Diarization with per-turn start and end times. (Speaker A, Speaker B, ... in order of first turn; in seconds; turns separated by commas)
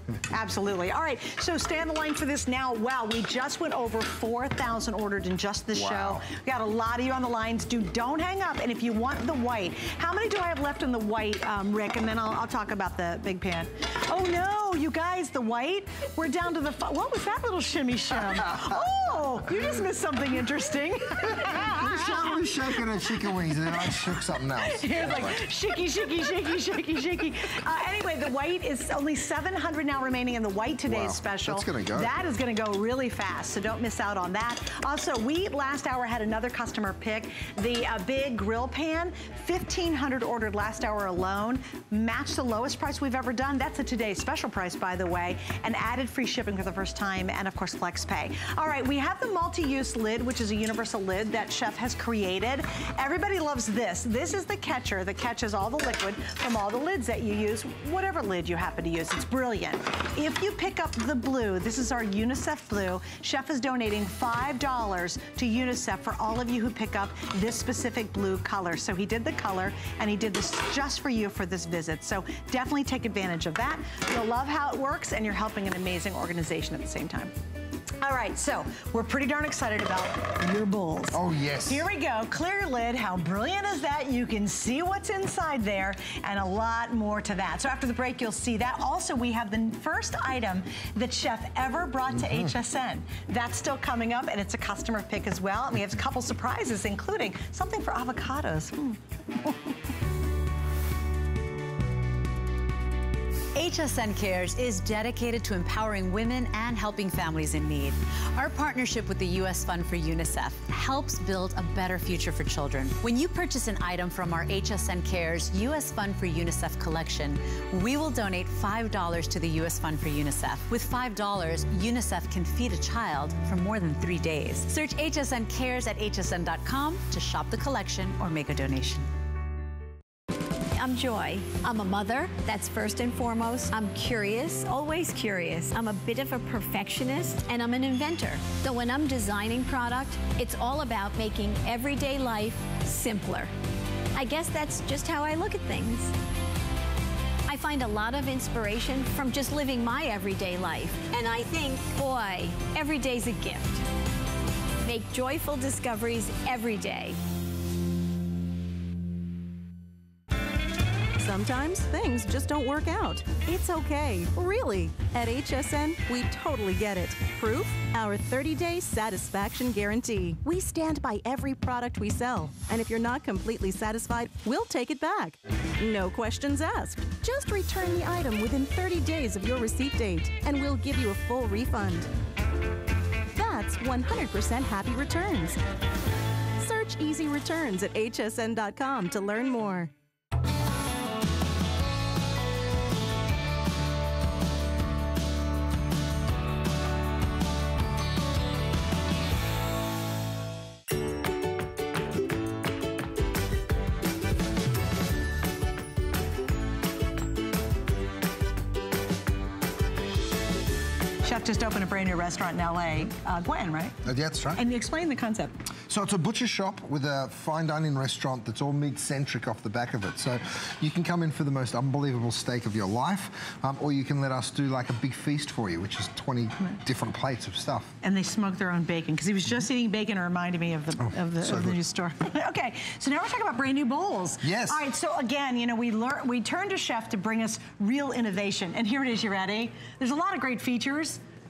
Speaker A: 0.3-22.7, Speaker B: 5.7-6.3, Speaker B: 18.3-18.8, Speaker B: 19.4-19.8, Speaker B: 21.2-25.5, Speaker A: 24.7-77.3, Speaker B: 30.9-32.1, Speaker A: 78.0-99.6, Speaker B: 81.1-81.9, Speaker B: 92.1-92.5, Speaker C: 103.5-129.1, Speaker D: 130.8-143.5, Speaker D: 144.1-146.1, Speaker D: 147.5-153.8, Speaker D: 154.8-157.2, Speaker E: 161.2-182.1, Speaker E: 183.3-185.6, Speaker E: 186.6-189.9, Speaker A: 211.2-214.0, Speaker B: 214.0-214.6, Speaker A: 214.5-215.5, Speaker B: 215.9-227.9, Speaker A: 228.0-241.2, Speaker B: 231.0-231.8, Speaker B: 234.4-234.8